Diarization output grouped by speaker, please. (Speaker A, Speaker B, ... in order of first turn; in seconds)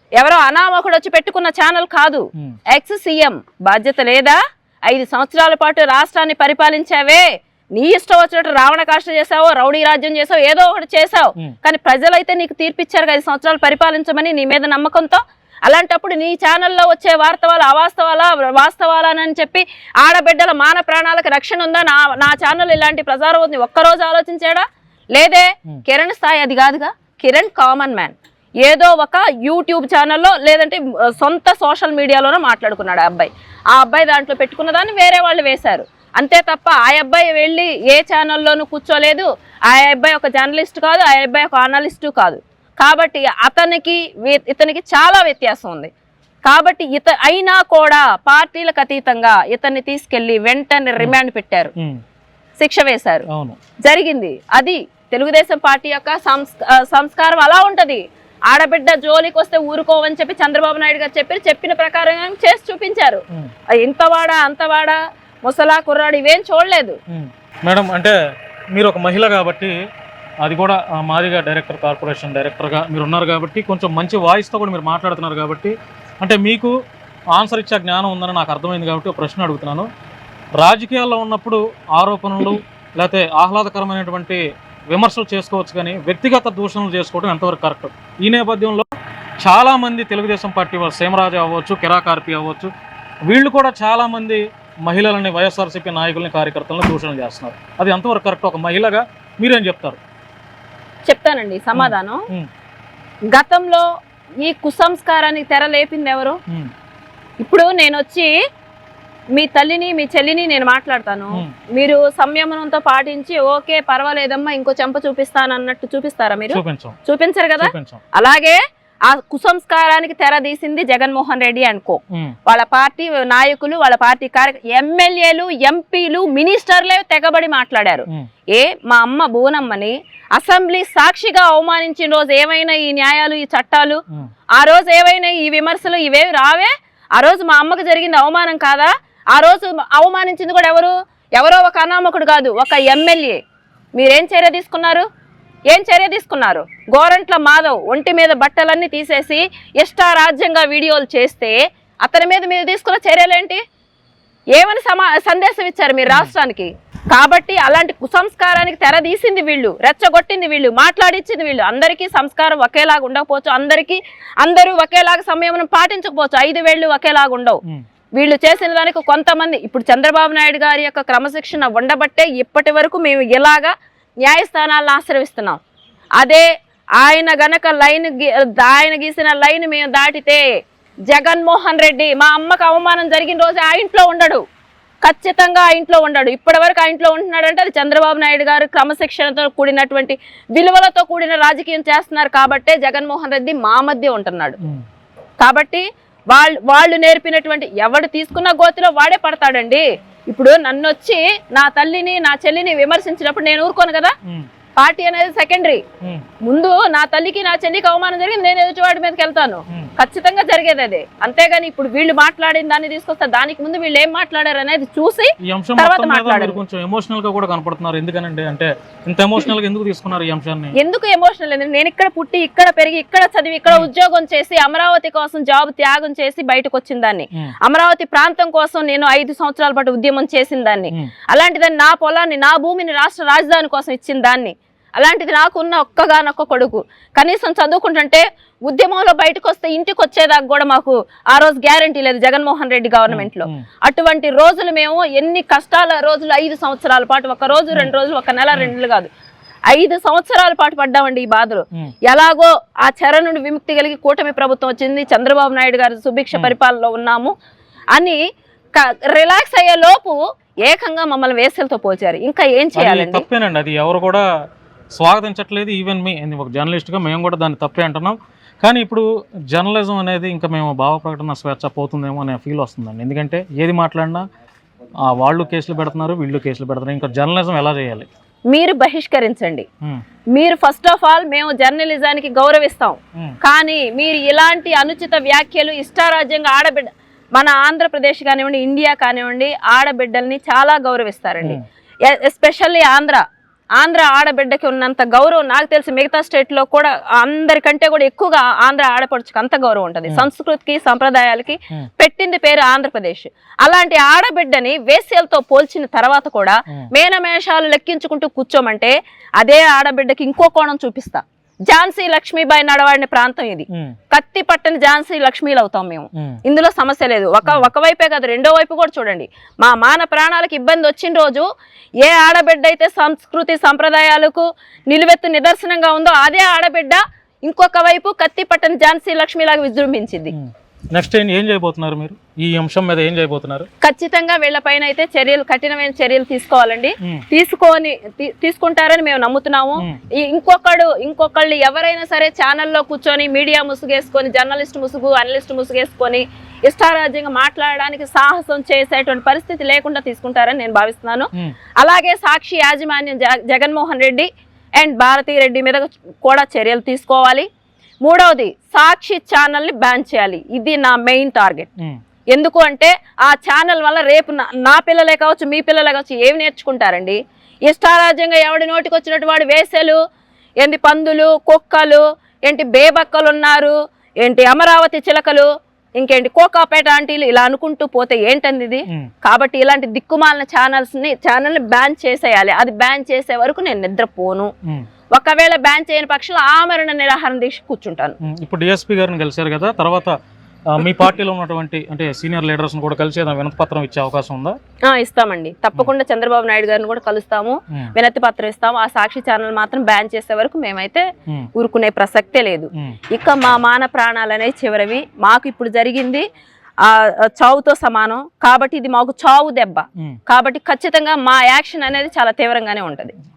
Speaker A: 0.2-45.9, 46.5-51.7, 52.6-53.2, 53.8-63.2, 63.8-67.0, 101.1-102.2, 103.3-103.9, 104.4-106.4, 107.4-108.3, 109.3-134.0, 134.6-143.4, 144.0-145.0, 145.7-153.6, 154.5-167.6, 168.2-175.6, 176.2-176.5, 177.0-180.6, 181.1-184.4, 185.0-194.6, 195.4-204.1, 204.8-205.8, 206.4-216.6, 220.8-249.1, 249.7-257.3, 257.9-258.2, 258.8-263.2, 278.5-279.6, 280.3-293.2, 293.8-321.5, 322.0-330.3, 333.8-357.5, 358.0-361.7, 362.3-370.0, 370.6-384.5, 385.1-388.1, 394.9-406.2, 406.8-413.1
Speaker B: 53.3-53.6, 67.1-68.1, 68.7-69.7, 70.4-76.7, 77.3-79.9, 80.6-84.4, 84.9-88.9, 89.4-92.7, 93.3-100.0, 101.8-102.5, 116.5-117.0, 117.6-118.0, 215.4-220.8, 243.1-243.6, 262.8-264.2, 265.0-274.2, 275.0-278.1, 313.7-314.0, 316.1-316.4, 330.3-333.7, 388.2-390.1, 390.7-394.6